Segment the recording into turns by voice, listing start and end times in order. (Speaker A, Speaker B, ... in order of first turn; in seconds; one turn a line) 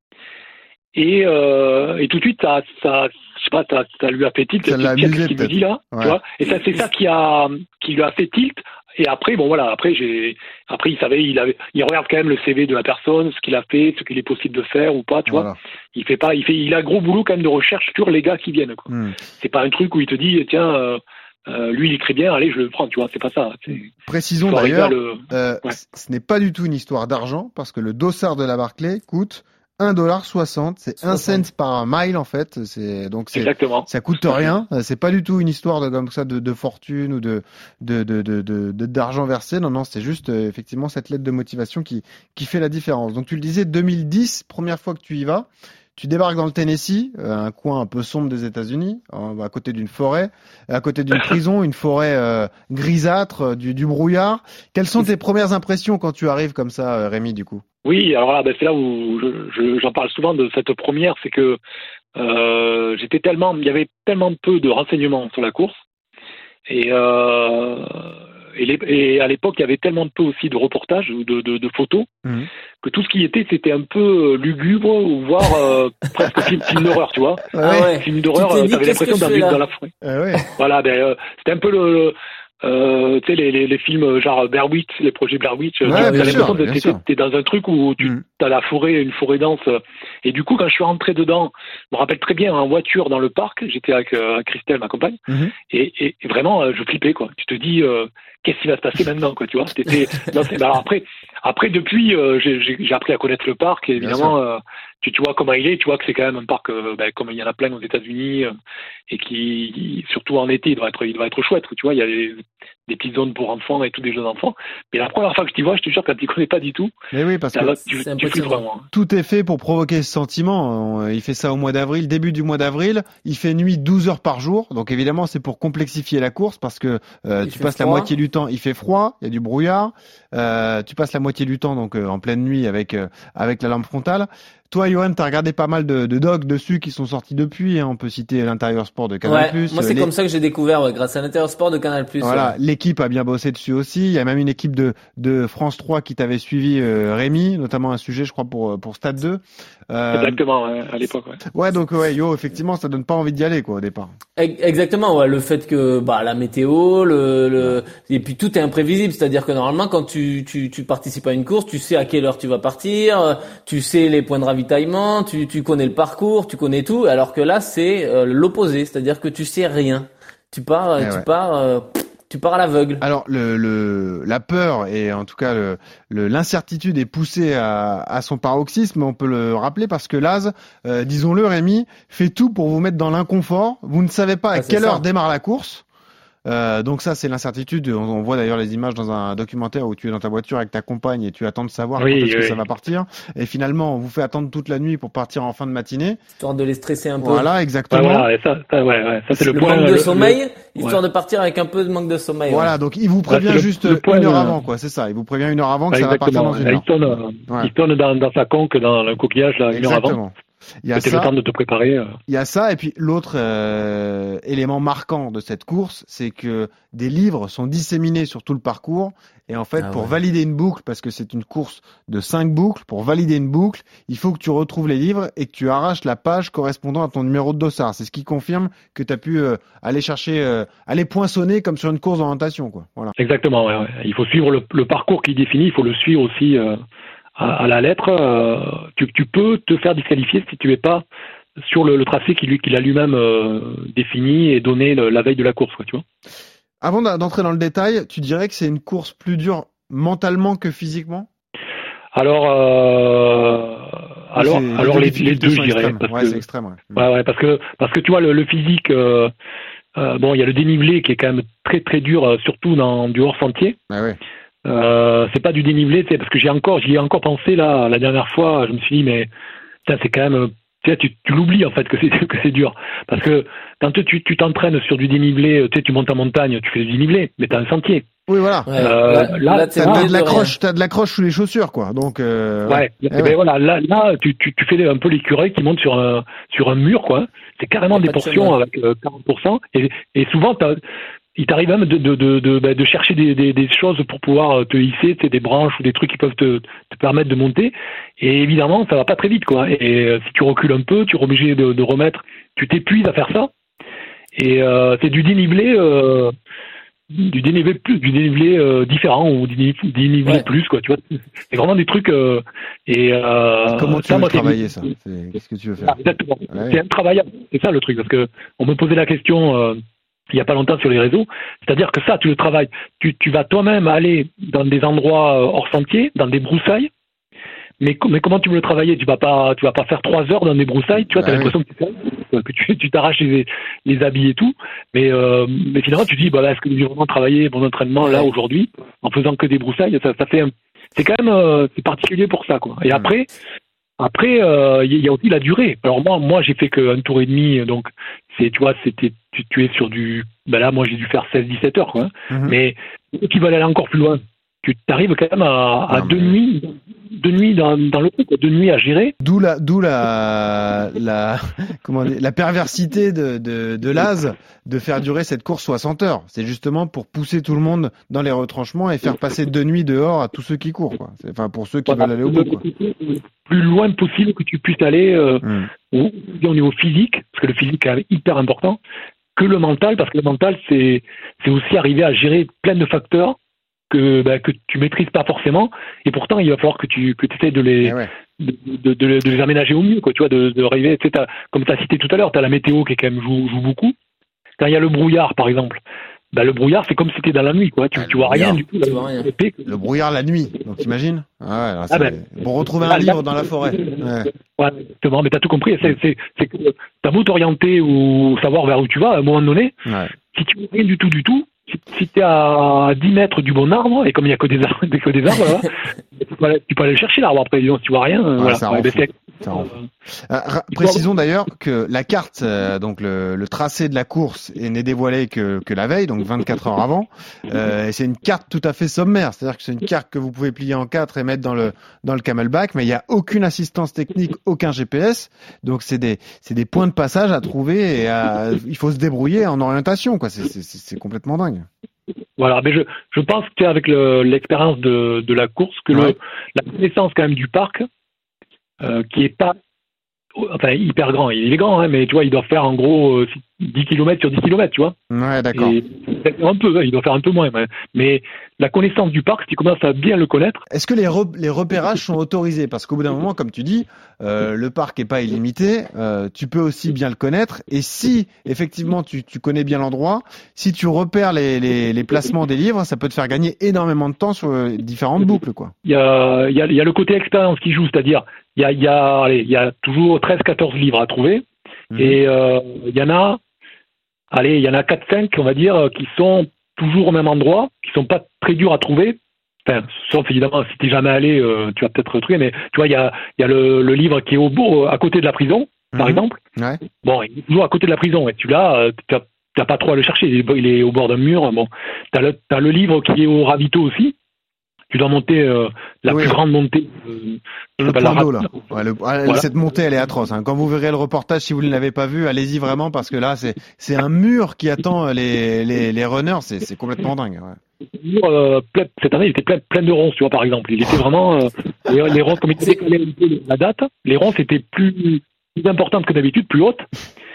Speaker A: 0.9-23.9
Speaker B: 4.6-6.2
Speaker B: 15.3-15.6
Speaker B: 18.9-19.2
Speaker B: 24.1-57.6
Speaker A: 24.4-25.7
Speaker A: 31.1-31.4
Speaker A: 33.3-33.9
Speaker A: 57.8-61.6
Speaker A: 62.1-65.8
Speaker A: 66.7-72.1
Speaker A: 72.8-79.9
Speaker B: 77.5-77.9
Speaker C: 77.6-79.6
Speaker B: 80.0-80.4
Speaker A: 80.5-95.2
Speaker B: 85.8-87.0
Speaker C: 85.9-86.5
Speaker B: 95.3-95.5
Speaker A: 95.7-108.5
Speaker B: 104.0-104.3
Speaker A: 109.1-116.9
Speaker B: 117.1-117.7
Speaker A: 117.5-118.8
Speaker C: 118.0-118.6
Speaker B: 118.9-140.1
Speaker C: 127.4-128.1
Speaker C: 139.2-142.5
Speaker B: 142.2-150.4
Speaker A: 150.1-151.4
Speaker B: 151.5-154.1
Speaker C: 154.4-173.0
Speaker B: 171.0-171.2
Speaker B: 173.0-185.8
Speaker C: 184.5-185.0
Speaker B: 186.4-196.2
Speaker A: 192.0-192.6
Speaker C: 196.4-197.4
Speaker B: 197.2-198.3
Speaker A: 197.9-201.0
Speaker C: 199.5-202.7
Speaker B: 202.5-206.9
Speaker A: 203.3-204.6
Speaker A: 205.9-210.2
Speaker B: 209.7-211.3
Speaker A: 210.9-212.2
Speaker B: 212.3-233.1
Speaker C: 219.8-220.1
Speaker A: 233.2-236.8
Speaker A: 237.4-241.0
Speaker A: 241.6-246.0
Speaker B: 246.8-251.3
Speaker A: 252.1-256.4
Speaker B: 254.3-257.0
Speaker A: 256.9-259.3
Speaker A: 259.9-263.8
Speaker B: 263.9-264.2
Speaker A: 264.6-269.3
Speaker A: 269.9-278.1
Speaker B: 278.3-278.7
Speaker C: 278.7-280.5
Speaker A: 278.8-280.4
Speaker B: 279.8-283.3
Speaker A: 282.7-290.8
Speaker C: 287.9-288.6
Speaker A: 291.4-303.5
Speaker A: 304.4-306.3
Speaker A: 307.1-311.0
Speaker A: 311.5-314.6
Speaker B: 313.7-316.8
Speaker A: 315.9-319.8
Speaker A: 320.3-326.9
Speaker A: 327.8-343.3
Speaker B: 330.9-331.5
Speaker A: 344.0-359.1
Speaker B: 352.3-352.6
Speaker B: 355.9-356.4
Speaker B: 359.2-372.6
Speaker A: 371.9-378.8
Speaker B: 375.4-375.7
Speaker A: 379.4-383.4
Speaker A: 383.9-393.9
Speaker B: 387.8-388.1
Speaker A: 394.6-395.8
Speaker A: 396.3-399.6
Speaker B: 397.9-398.6
Speaker C: 398.8-399.3
Speaker B: 399.6-404.3
Speaker A: 401.9-402.2
Speaker A: 402.8-409.8
Speaker B: 409.9-410.1
Speaker A: 410.3-419.9
Speaker B: 418.4-419.7
Speaker B: 420.3-441.7
Speaker A: 420.7-421.0
Speaker A: 442.4-447.9
Speaker A: 448.8-449.5
Speaker A: 450.4-454.9
Speaker B: 455.1-455.8
Speaker A: 455.5-460.6
Speaker B: 460.7-475.7
Speaker A: 475.8-483.4
Speaker B: 481.9-482.2
Speaker A: 484.3-496.4
Speaker B: 495.9-496.8
Speaker A: 497.0-504.1
Speaker A: 504.9-508.6
Speaker B: 506.1-506.4
Speaker B: 507.8-517.6
Speaker A: 518.0-526.9